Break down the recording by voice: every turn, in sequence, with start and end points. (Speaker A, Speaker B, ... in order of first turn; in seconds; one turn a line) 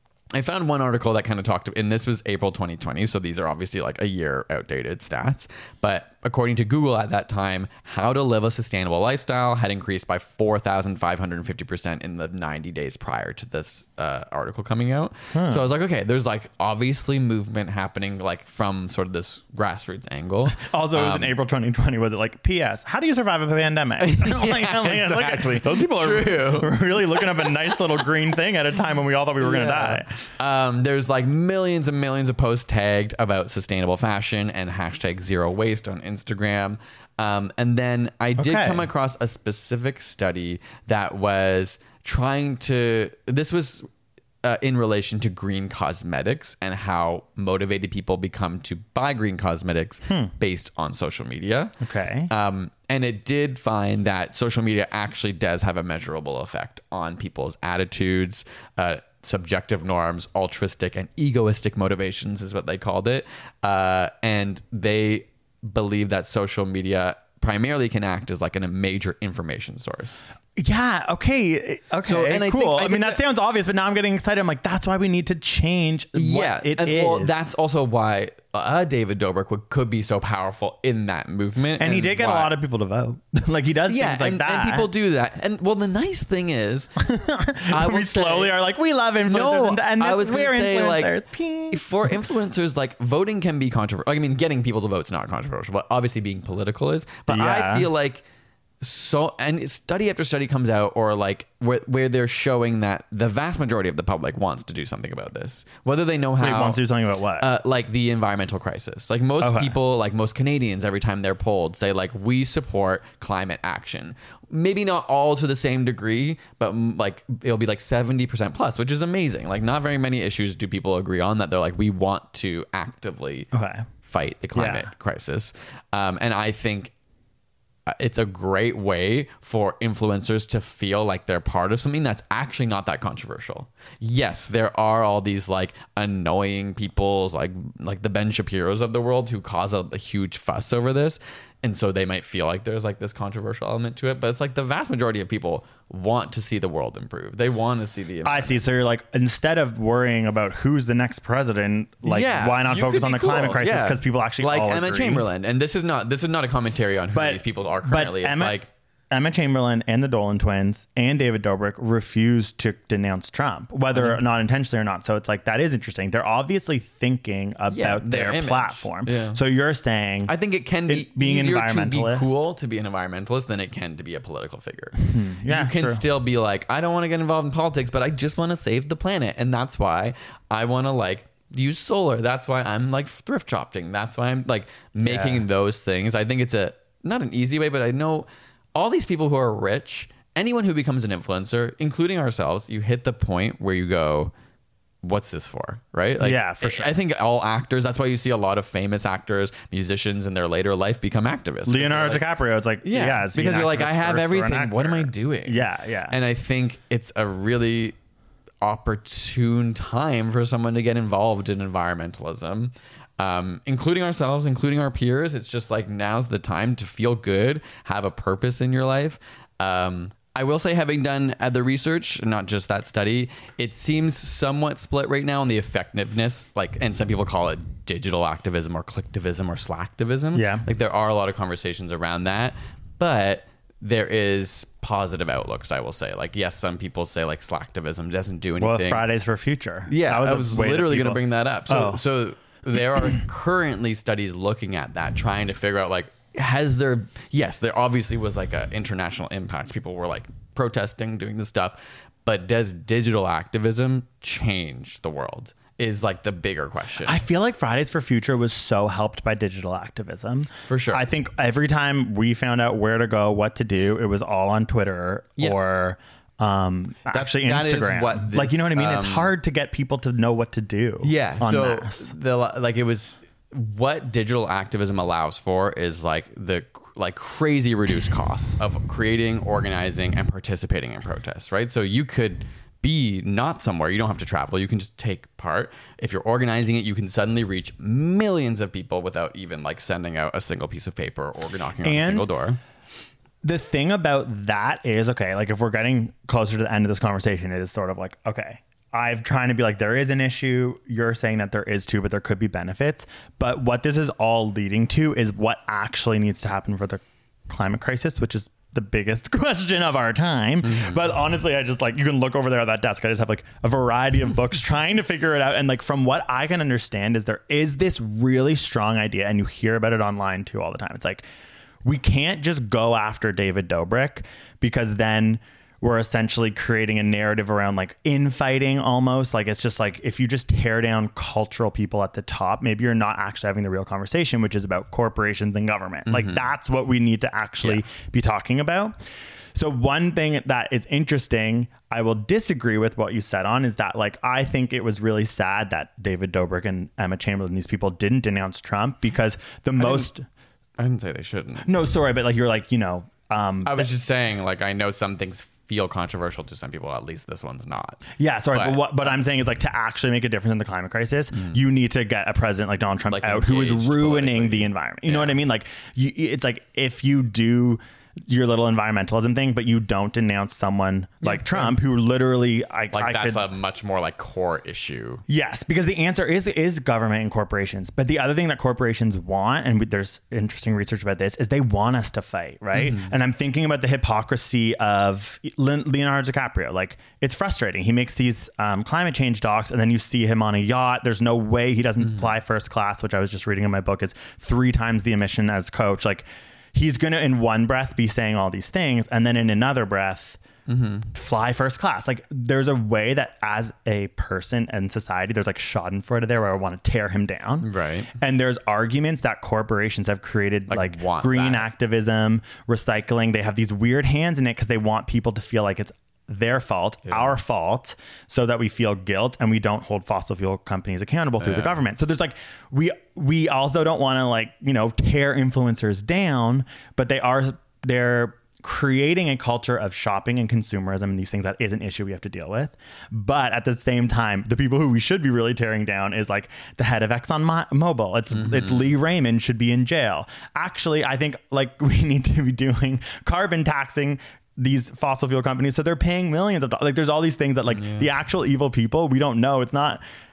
Speaker A: 0.3-21.3
Speaker B: 15.3-15.7
Speaker B: 20.5-30.1
Speaker A: 24.0-27.5
Speaker A: 29.4-43.9
Speaker B: 38.4-38.9
Speaker A: 44.4-51.7
Speaker B: 50.1-50.3
Speaker B: 51.8-52.3
Speaker A: 52.3-70.2
Speaker B: 70.5-77.5
Speaker A: 72.0-73.2
Speaker A: 76.1-82.5
Speaker B: 81.8-84.9
Speaker A: 83.9-86.9
Speaker B: 87.0-92.1
Speaker A: 87.7-88.5
Speaker A: 89.2-91.2
Speaker A: 91.7-98.2
Speaker B: 97.3-97.9
Speaker A: 98.8-106.8
Speaker B: 106.4-107.5
Speaker A: 107.4-123.5
Speaker B: 109.4-109.8
Speaker B: 123.5-123.9
Speaker A: 124.0-126.9
Speaker B: 124.5-124.9
Speaker A: 127.9-148.6
Speaker B: 148.2-155.3
Speaker A: 152.1-158.7
Speaker B: 157.1-170.3
Speaker A: 163.9-164.2
Speaker A: 167.7-169.4
Speaker A: 170.2-194.3
Speaker B: 170.9-172.3
Speaker B: 175.0-176.1
Speaker B: 185.0-185.4
Speaker A: 195.0-202.3
Speaker B: 196.2-197.0
Speaker B: 201.7-206.2
Speaker A: 202.8-207.9
Speaker A: 208.6-239.1
Speaker B: 230.3-230.7
Speaker B: 238.6-242.0
Speaker A: 239.9-257.2
Speaker B: 257.0-272.1
Speaker A: 260.7-261.1
Speaker A: 267.1-269.3
Speaker A: 271.0-292.6
Speaker B: 291.8-292.3
Speaker B: 293.4-321.2
Speaker A: 310.6-311.2
Speaker B: 321.8-339.0
Speaker A: 336.1-336.5
Speaker B: 339.5-350.2
Speaker A: 349.8-350.1
Speaker A: 350.8-351.6
Speaker B: 351.6-353.9
Speaker A: 353.6-359.2
Speaker B: 358.2-373.5
Speaker A: 361.3-361.6
Speaker A: 363.1-365.4
Speaker A: 371.2-371.8
Speaker A: 372.9-375.2
Speaker B: 375.3-400.4
Speaker A: 382.7-383.1
Speaker A: 392.0-392.3
Speaker A: 400.7-401.1
Speaker B: 401.1-450.0
Speaker A: 407.6-408.1
Speaker A: 410.7-411.7
Speaker A: 417.1-417.4
Speaker A: 421.4-421.8
Speaker A: 438.3-438.9
Speaker A: 447.7-448.1